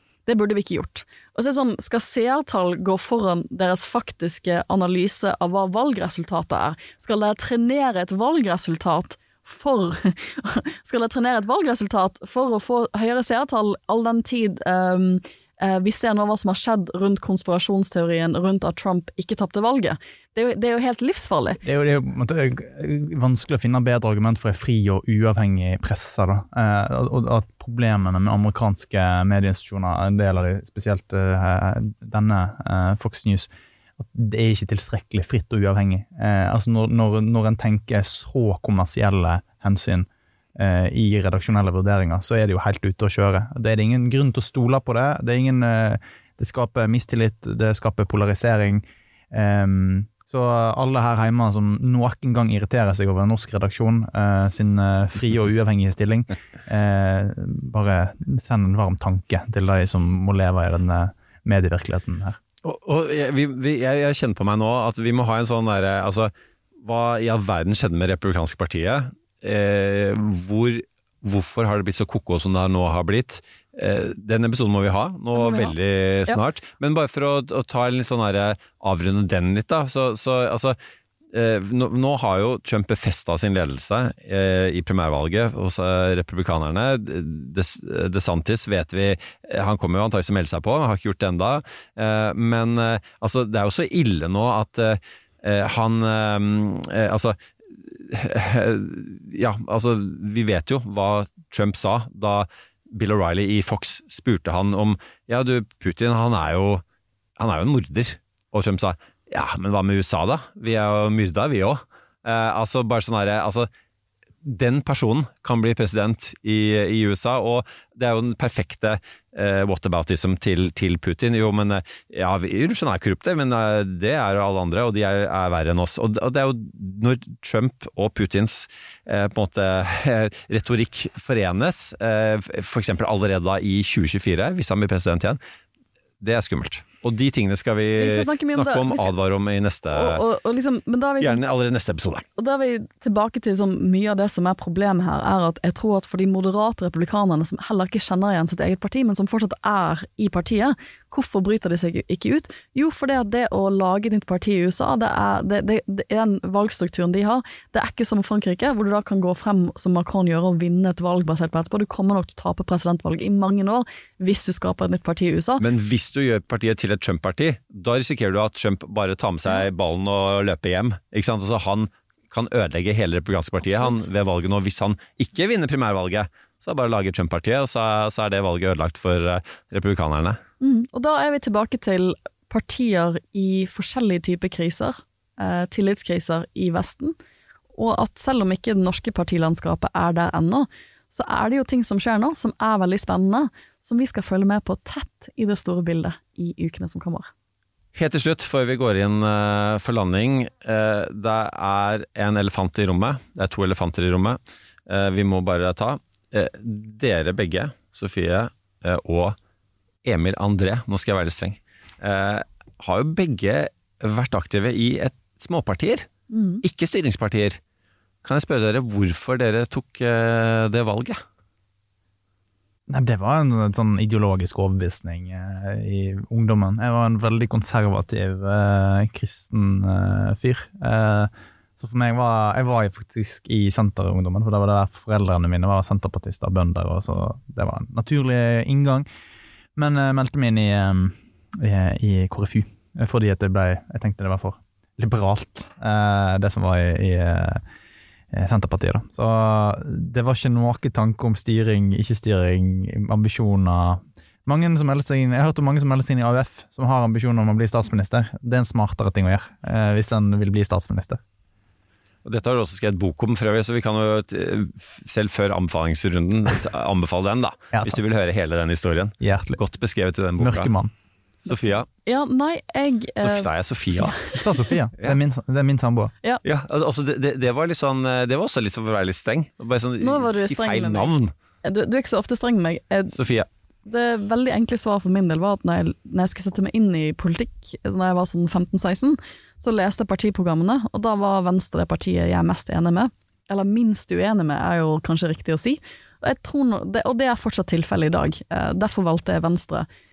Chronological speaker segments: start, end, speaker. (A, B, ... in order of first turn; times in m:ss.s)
0:00.3-0:21.6 A
0:21.6-1:02.4 B
1:02.6-1:06.3 C
1:06.8-1:20.8 C
1:15.4-1:15.8 A
1:21.3-1:37.4 C
1:37.9-1:46.8 C
1:47.4-1:53.7 C
1:54.4-2:15.4 C
2:16.2-2:20.2 C
2:18.0-2:19.1 A
2:19.9-2:21.4 A
2:21.2-2:22.2 C
2:22.4-2:45.6 A
2:45.6-3:00.4 C
2:53.6-2:54.0 A
3:00.6-3:07.2 A
3:07.8-3:17.3 A
3:18.0-3:29.4 C
3:30.0-3:36.1 C
3:36.3-3:36.6 A
3:36.6-3:37.6 C
3:38.2-3:41.2 C
3:42.9-3:59.1 B
3:59.8-4:07.6 B
4:08.3-4:21.2 B
4:22.2-4:30.7 C
4:27.7-4:28.0 B
4:29.2-4:29.6 B
4:30.4-4:30.9 B
4:31.4-4:31.9 C
4:32.0-4:34.2 A
4:33.2-4:34.2 C
4:34.4-4:36.1 B
4:36.4-4:41.3 C
4:40.0-4:41.1 A
4:41.6-4:43.2 A
4:43.1-4:43.5 C
4:43.9-4:59.9 A